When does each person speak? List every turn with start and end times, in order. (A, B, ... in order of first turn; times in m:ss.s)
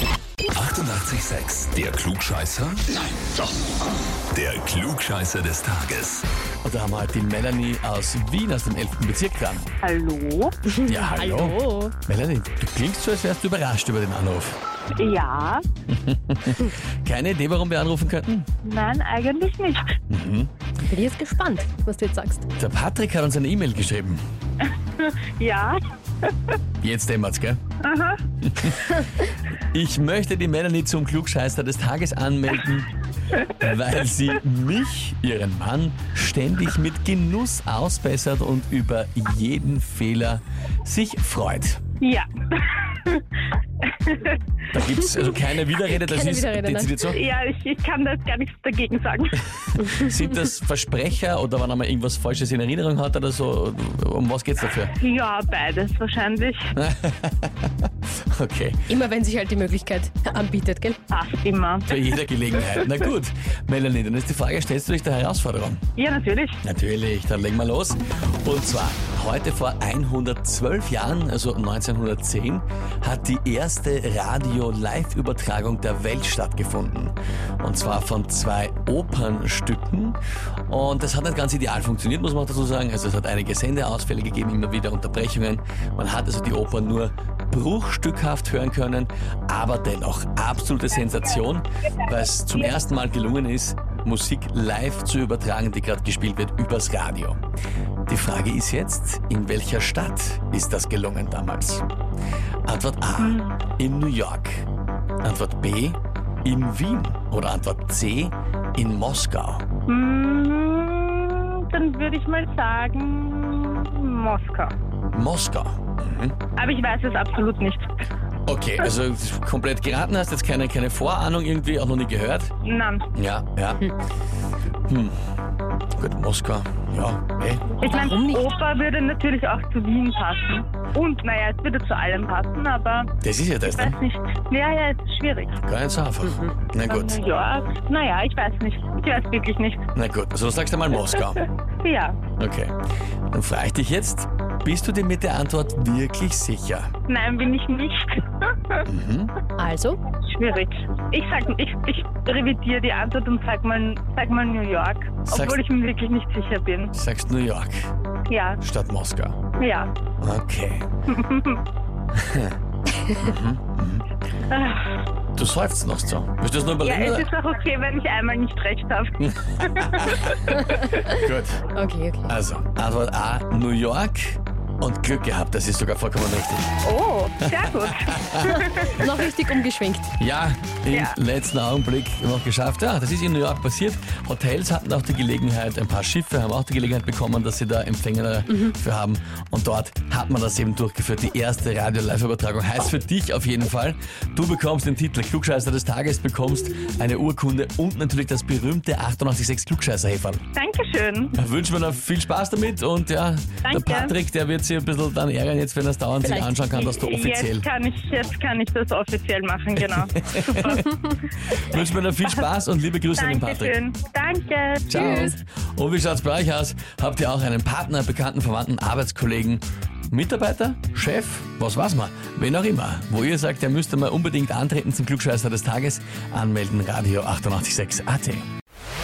0:00.5-0:02.9 A
0:04.3-0:06.2 A
0:06.6-0:09.7 B
0:09.8-0:10.6 C
0:10.7-0:11.9 D
0:10.8-0:14.6 B
0:15.0-0:15.6 C
0:15.9-0:18.5 B
0:18.6-0:19.9 C
0:20.1-0:20.5 B
0:20.9-0:22.4 D
0:22.6-0:24.2 B
0:25.0-0:26.6 C
0:26.8-0:27.6 B
0:27.8-0:28.2 C
0:28.4-0:32.9 B
0:33.5-0:41.8 B
0:42.0-0:43.2 C
0:43.8-0:44.4 C
0:44.7-0:47.2 B
0:45.1-0:45.4 D
0:45.9-0:47.1 D
0:47.1-0:49.4 C
0:49.7-0:54.9 B
0:55.0-0:56.7 C
0:56.8-0:58.8 B
0:58.9-1:01.0 D
1:01.1-1:02.0 C
1:01.9-1:05.8 B
1:06.0-1:06.6 C
1:06.6-1:20.2 B
1:20.7-1:37.4 B
1:38.1-1:41.8 B
1:42.6-1:44.6 B
1:43.2-1:43.6 C
1:45.2-1:49.6 B
1:49.9-1:54.7 C
1:55.1-1:56.3 B
1:56.6-1:57.9 C
1:58.4-2:02.5 B
2:02.6-2:03.0 C
2:03.1-2:03.9 B
2:04.9-2:05.1 B
2:06.0-2:07.7 B
2:07.8-2:13.1 C
2:07.8-2:08.5 D
2:13.2-2:14.0 B
2:13.7-2:15.6 C
2:15.6-2:17.2 B
2:16.2-2:16.6 D
2:16.8-2:19.8 C
2:19.9-2:21.4 B
2:21.8-2:22.2 C
2:22.4-2:22.7 B
2:23.3-2:26.9 B
2:27.1-2:28.8 C
2:28.8-2:29.3 B
2:29.6-2:30.0 D
2:30.2-2:36.9 C
2:35.3-2:35.6 B
2:36.9-2:37.9 B
2:38.3-2:38.6 C
2:38.6-2:39.4 B
2:39.6-2:39.9 C
2:40.2-2:40.8 B
2:41.1-2:41.6 C
2:42.2-2:42.6 B
2:43.2-2:44.0 B
2:44.5-2:44.9 C
2:45.4-2:47.3 B
2:46.8-2:50.6 C
2:49.2-2:50.3 B
2:50.8-2:52.4 D
2:51.0-2:51.7 B
2:52.3-2:56.7 B
2:56.8-2:59.1 C
2:57.5-2:58.6 B
2:58.4-3:00.1 D
3:00.2-3:20.4 B
3:00.9-3:01.2 C
3:20.6-3:21.3 C
3:21.3-3:27.7 B
3:23.6-3:24.2 C
3:26.2-3:26.6 D
3:26.7-3:30.9 C
3:30.2-3:30.9 B
3:31.5-3:32.4 C
3:31.5-3:33.7 B
3:33.1-3:35.4 C
3:34.9-3:48.5 B